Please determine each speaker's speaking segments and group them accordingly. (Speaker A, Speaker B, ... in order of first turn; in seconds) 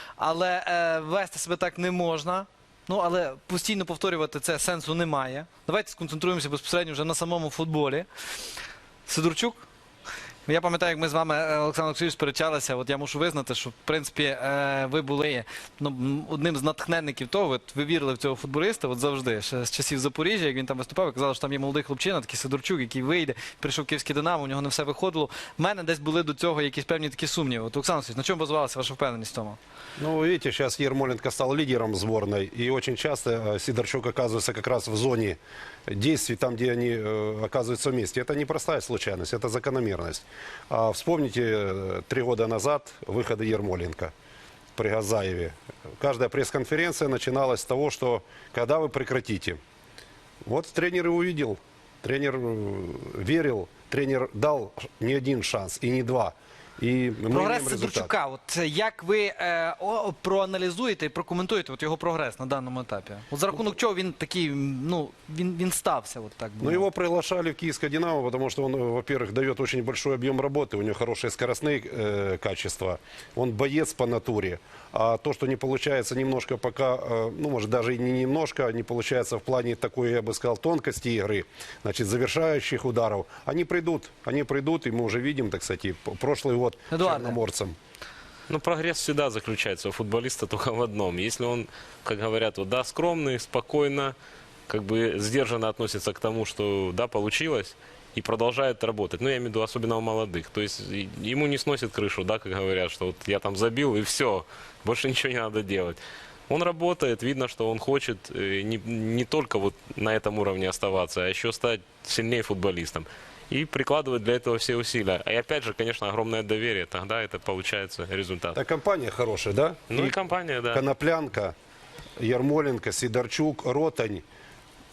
Speaker A: 0.2-8.1, 9.1-9.6, 10.4-29.6, 57.3-66.8, 86.9-87.3
Speaker B: 30.0-44.1, 44.8-49.6, 50.5-58.1, 66.6-87.8, 118.5-120.2, 120.7-121.5, 122.2-124.2
Speaker C: 88.5-94.1, 94.7-118.6, 119.9-120.8